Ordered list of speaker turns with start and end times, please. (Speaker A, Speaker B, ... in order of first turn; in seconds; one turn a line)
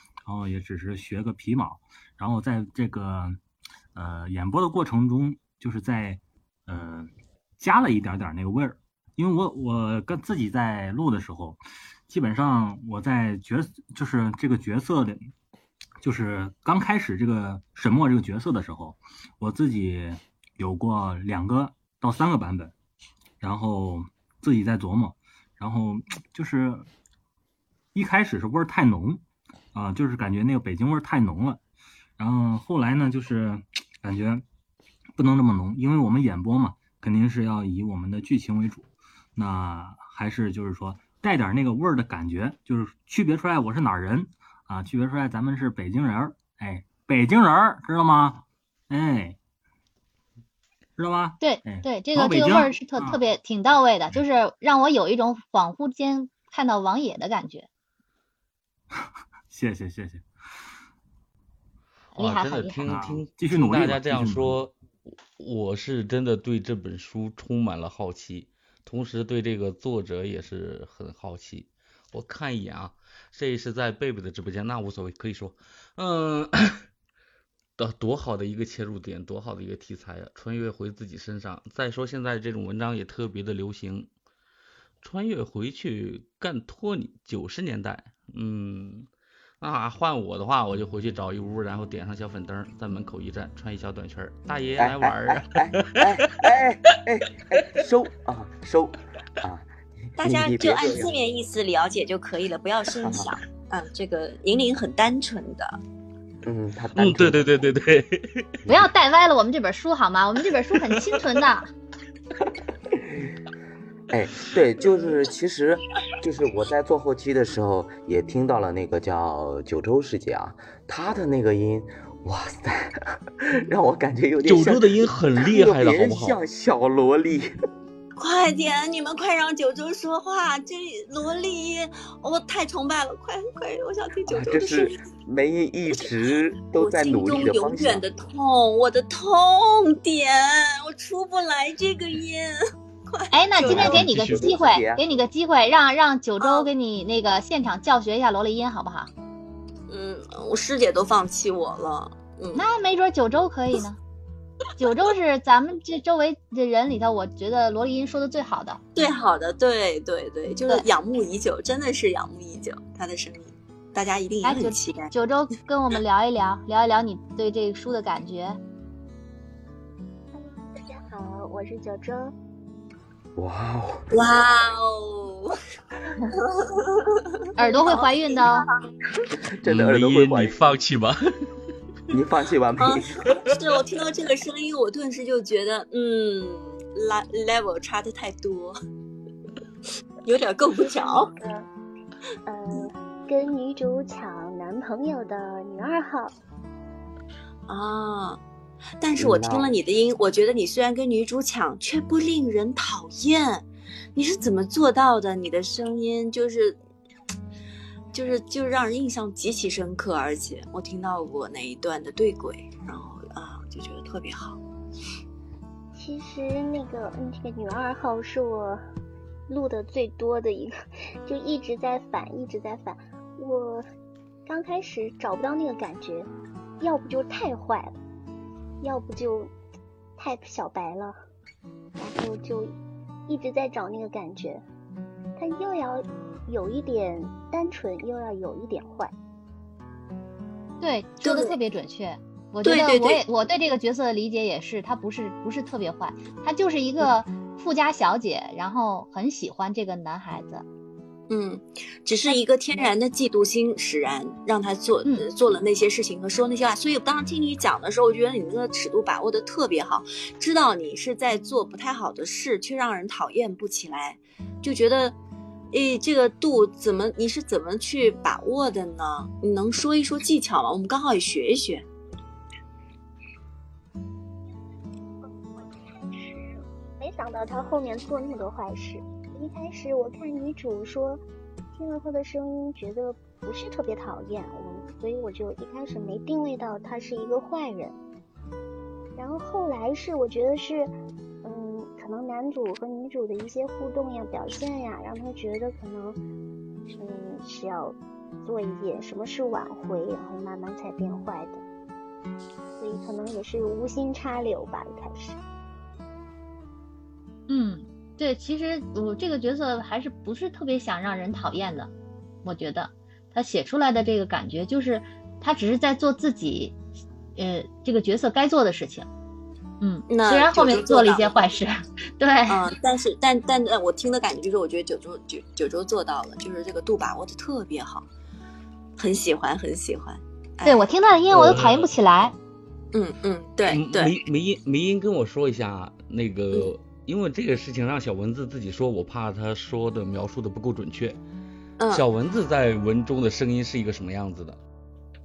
Speaker A: 0.2-3.4
Speaker A: 3.9-15.3
Speaker A: 16.0-22.7
Speaker A: 23.4-26.9
Speaker A: 27.9-29.2
Speaker A: 29.7-31.6
Speaker A: 32.2-34.4
Speaker A: 35.2-49.4
Speaker A: 51.0-53.2
Speaker B: 51.4-57.7
Speaker A: 59.5-60.2
Speaker B: 62.1-62.8
Speaker C: 62.1-64.7
Speaker A: 62.9-64.6
Speaker C: 65.3-76.8
Speaker C: 77.8-84.1
Speaker C: 85.0-89.1
Speaker C: 89.6-96.2
Speaker D: 94.8-101.1
Speaker E: 100.2-105.8
Speaker D: 103.0-103.3
Speaker D: 106.4-107.7
Speaker C: 107.0-108.6
Speaker B: 108.7-111.7
Speaker D: 114.1-127.5
Speaker C: 124.4-126.4
Speaker E: 128.2-135.0
Speaker D: 134.3-138.0
Speaker E: 136.7-144.0
Speaker B: 143.3-149.1
Speaker D: 143.6-145.0
Speaker C: 144.0-144.4
Speaker E: 146.4-146.7
Speaker E: 149.9-152.6
Speaker B: 152.5-154.0
Speaker B: 154.8-158.8
Speaker E: 158.9-165.1
Speaker B: 164.4-168.6
Speaker F: 170.3-172.3
Speaker D: 173.3-174.0
Speaker E: 174.1-175.6
Speaker E: 176.3-178.9
Speaker B: 177.6-178.7
Speaker D: 179.5-180.6
Speaker C: 179.6-181.2
Speaker D: 182.1-183.5
Speaker E: 182.8-188.8
Speaker E: 190.2-191.3
Speaker F: 190.9-191.7
Speaker F: 192.4-196.3
Speaker E: 197.7-198.4
Speaker E: 199.0-206.8
Speaker D: 199.2-199.8
Speaker E: 208.1-214.6
Speaker F: 215.9-218.8
Speaker F: 219.5-223.9
Speaker F: 224.4-226.3
Speaker F: 226.8-228.0
Speaker F: 228.8-229.5
Speaker F: 230.2-231.2
Speaker F: 232.0-232.7
Speaker F: 233.3-234.6
Speaker F: 235.4-239.1
Speaker B: 240.8-250.6
Speaker E: 241.2-241.5
Speaker E: 242.6-243.2
Speaker E: 251.3-265.1
Speaker B: 252.3-252.9
Speaker E: 265.7-271.8
Speaker F: 275.2-281.2
Speaker F: 281.7-288.0
Speaker F: 289.2-296.2
Speaker F: 296.9-301.6
Speaker F: 302.8-305.4
Speaker B: 307.5-311.9
Speaker B: 312.4-316.8
Speaker B: 317.4-319.1
Speaker B: 319.8-322.7
Speaker E: 320.1-321.5
Speaker E: 322.5-328.1
Speaker E: 329.0-330.8
Speaker B: 330.6-332.3
Speaker C: 331.3-331.9
Speaker E: 332.9-334.2
Speaker C: 333.7-341.2
Speaker E: 341.8-342.0
Speaker C: 341.9-344.6